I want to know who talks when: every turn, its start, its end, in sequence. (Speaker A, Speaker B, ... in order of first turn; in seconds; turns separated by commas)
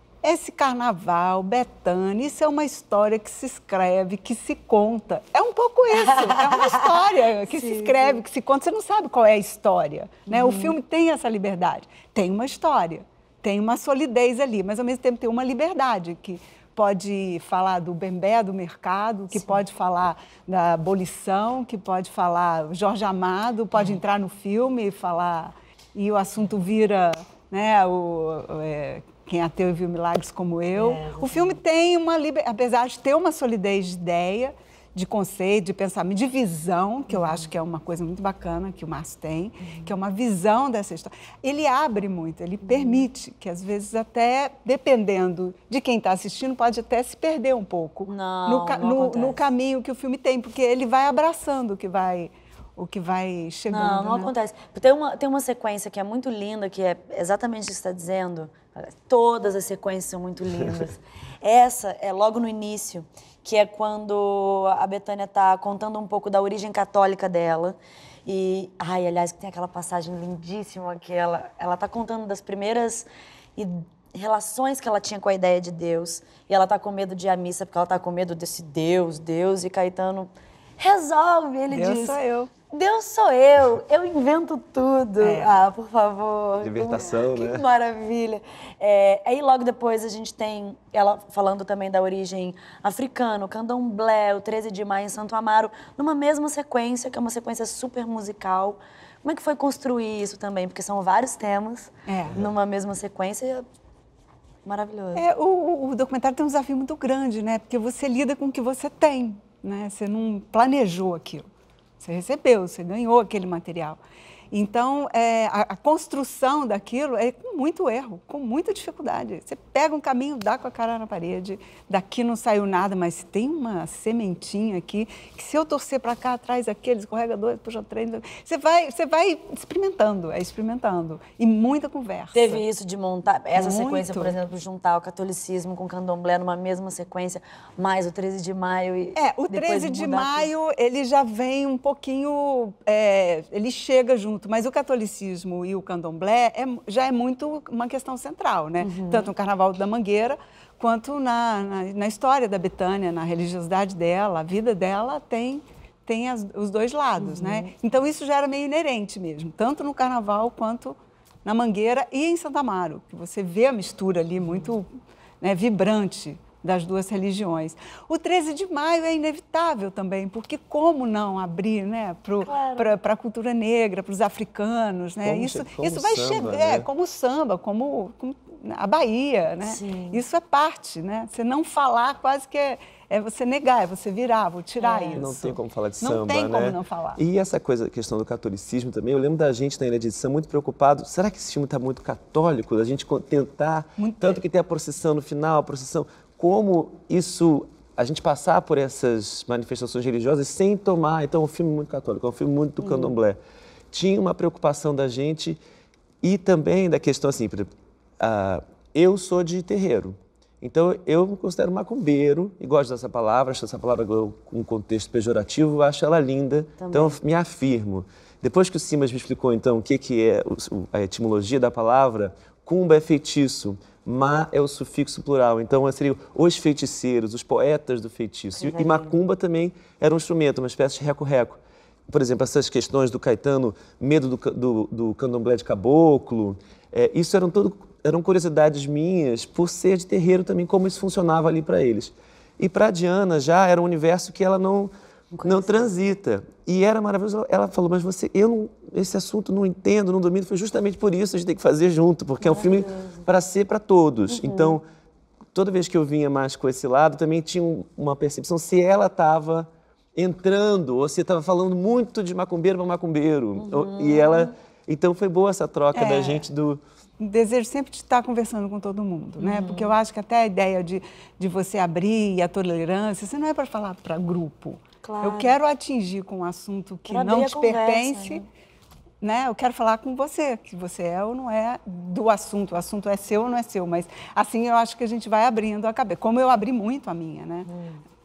Speaker A: 0.2-54.3, Speaker B: 6.1-6.9, Speaker B: 7.5-8.2, Speaker B: 10.3-10.8, Speaker B: 30.7-31.6, Speaker B: 37.1-37.5, Speaker B: 39.6-39.9, Speaker B: 42.6-43.1, Speaker B: 48.1-49.4, Speaker B: 53.7-82.2, Speaker A: 81.7-82.5, Speaker B: 82.7-103.6, Speaker A: 85.2-85.6, Speaker C: 86.6-87.6, Speaker A: 102.1-102.4, Speaker B: 104.6-105.2, Speaker A: 105.1-111.5, Speaker A: 112.0-114.0, Speaker A: 114.5-132.6, Speaker B: 132.3-140.5, Speaker A: 133.5-134.3, Speaker A: 139.1-164.9, Speaker B: 148.8-149.3, Speaker B: 157.2-157.7, Speaker A: 165.4-187.2, Speaker B: 172.4-172.9, Speaker C: 175.2-176.9, Speaker B: 179.6-180.2, Speaker B: 184.8-185.2, Speaker C: 185.1-203.4, Speaker A: 194.0-194.4, Speaker B: 202.8-203.2, Speaker C: 203.9-205.6, Speaker C: 206.2-244.9, Speaker B: 216.8-217.2, Speaker B: 228.6-229.1, Speaker B: 245.3-245.9, Speaker C: 245.4-254.8, Speaker B: 252.4-253.2, Speaker B: 254.3-254.8, Speaker C: 255.5-266.8, Speaker B: 263.6-264.5, Speaker A: 265.9-266.4, Speaker A: 267.2-278.4, Speaker B: 269.4-269.9, Speaker B: 275.0-275.5, Speaker B: 277.1-278.4, Speaker A: 279.2-287.7, Speaker B: 287.6-288.0